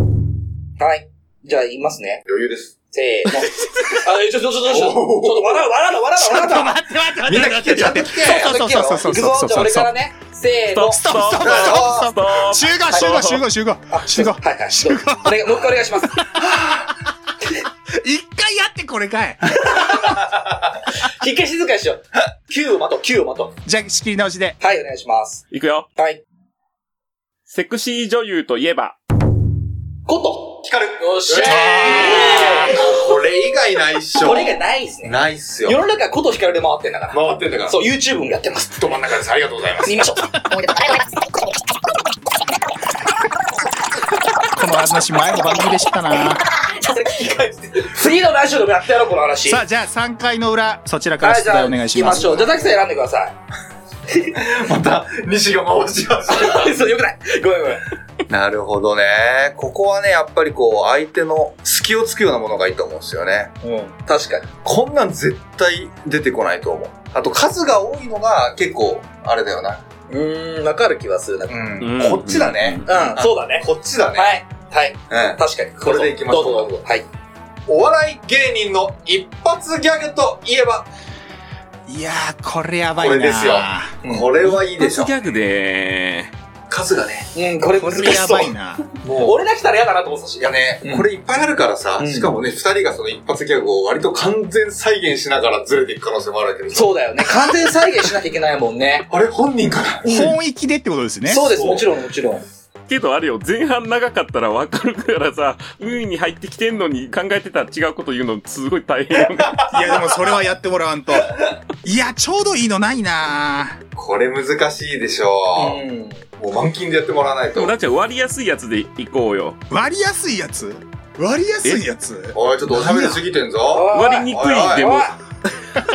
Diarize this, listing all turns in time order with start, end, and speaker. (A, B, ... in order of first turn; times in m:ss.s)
0:00.8-0:02.2 A
0:02.2-0:02.8 B
0:02.9-0:06.8 A
0:04.6-0:05.6 B
0:06.2-0:09.9 C
0:07.2-0:08.5 B
0:08.2-0:11.0 A
0:10.7-0:13.4 D
0:10.9-0:16.2 C
0:11.4-0:12.1 B
0:13.9-0:16.2 A
0:16.4-0:16.8 B
0:17.9-0:20.1 C
0:19.8-0:20.1 A
0:20.9-0:23.5 A
0:23.6-0:24.6 C
0:24.6-0:25.4 A
0:25.5-0:25.9 D
0:27.5-0:29.0 D
0:30.1-0:32.8 A
0:30.6-0:35.8 B
0:31.4-0:32.6 C
0:34.2-0:38.8 A
0:37.1-0:37.8 B
0:38.7-0:40.1 B
0:39.8-0:41.0 A
0:44.5-0:46.4 C
0:46.5-0:49.6 A
0:49.4-0:52.6 C
0:51.2-0:53.3 A
0:54.3-0:56.7 B
0:56.3-0:57.8 A
0:58.3-1:03.5 B
1:03.6-1:04.5 A
1:04.6-1:09.8 B
1:10.1-1:11.6 A
1:11.5-1:14.4 B
1:11.8-1:12.9 D
1:12.8-1:17.1 A
1:15.1-1:16.8 B
1:17.7-1:20.9 B
1:21.9-1:24.0 C
1:23.0-1:25.1 B
1:24.0-1:24.3 A
1:24.4-1:26.3 D
1:26.7-1:27.3 B
1:27.3-1:28.5 A
1:27.8-1:28.8 C
1:29.0-1:29.4 B
1:29.2-1:31.0 A
1:30.4-1:37.6 B
1:32.0-1:32.3 A
1:36.7-1:39.1 A
1:39.1-1:40.3 B
1:40.0-1:41.5 C
1:41.2-1:42.4 A
1:41.5-1:41.8 B
1:42.9-1:49.6 D
1:49.3-1:50.0 B
1:49.7-1:53.8 C
1:53.9-1:55.8 B
1:55.5-1:56.2 A
1:56.4-1:57.7 B
1:57.5-1:59.6 D
1:59.7-2:03.2 C
2:02.3-2:05.0 B
2:03.7-2:05.1 A
2:03.9-2:05.1 D